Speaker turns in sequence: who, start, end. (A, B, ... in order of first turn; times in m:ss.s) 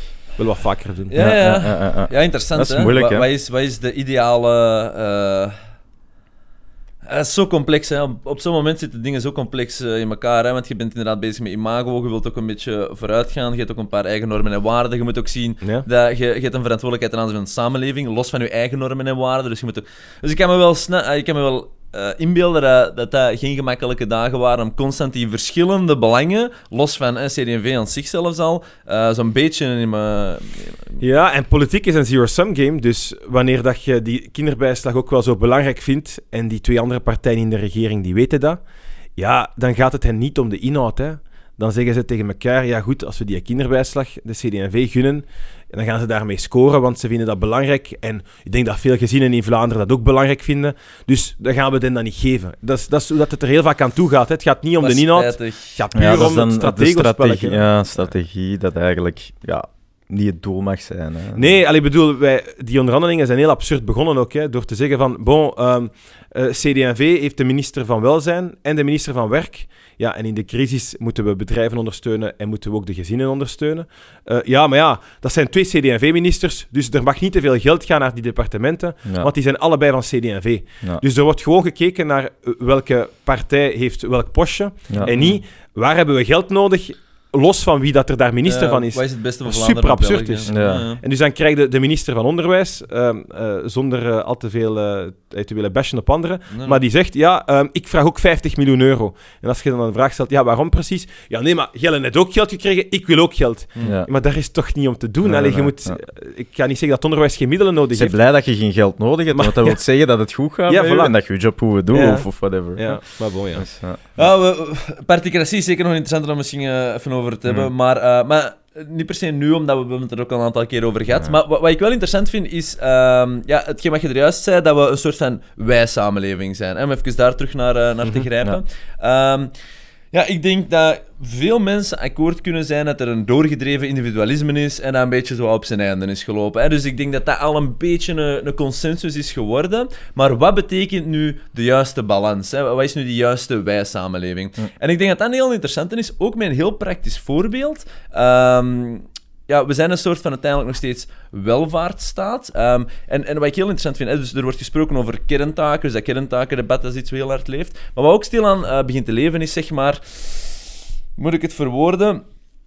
0:00.4-0:01.1 A
0:01.1-0:05.6 B
0:01.2-0:03.2 C
0:07.0-0:31.0 B
0:31.0-0:38.6 A
0:39.2-0:57.6 A
0:54.8-0:56.1 B
0:56.0-1:01.6 C
1:01.4-1:48.2 A
1:25.0-1:25.4 B
1:28.5-1:31.0 B
1:30.5-1:30.9 C
1:36.5-1:36.8 B
1:43.8-1:44.1 C
1:45.2-1:46.0 C
1:47.9-1:53.0 C
1:49.3-1:49.8 A
1:50.7-1:51.1 A
1:51.9-1:53.6 A
1:53.6-1:54.2 C
1:54.2-2:09.5 B
2:10.1-2:42.2 B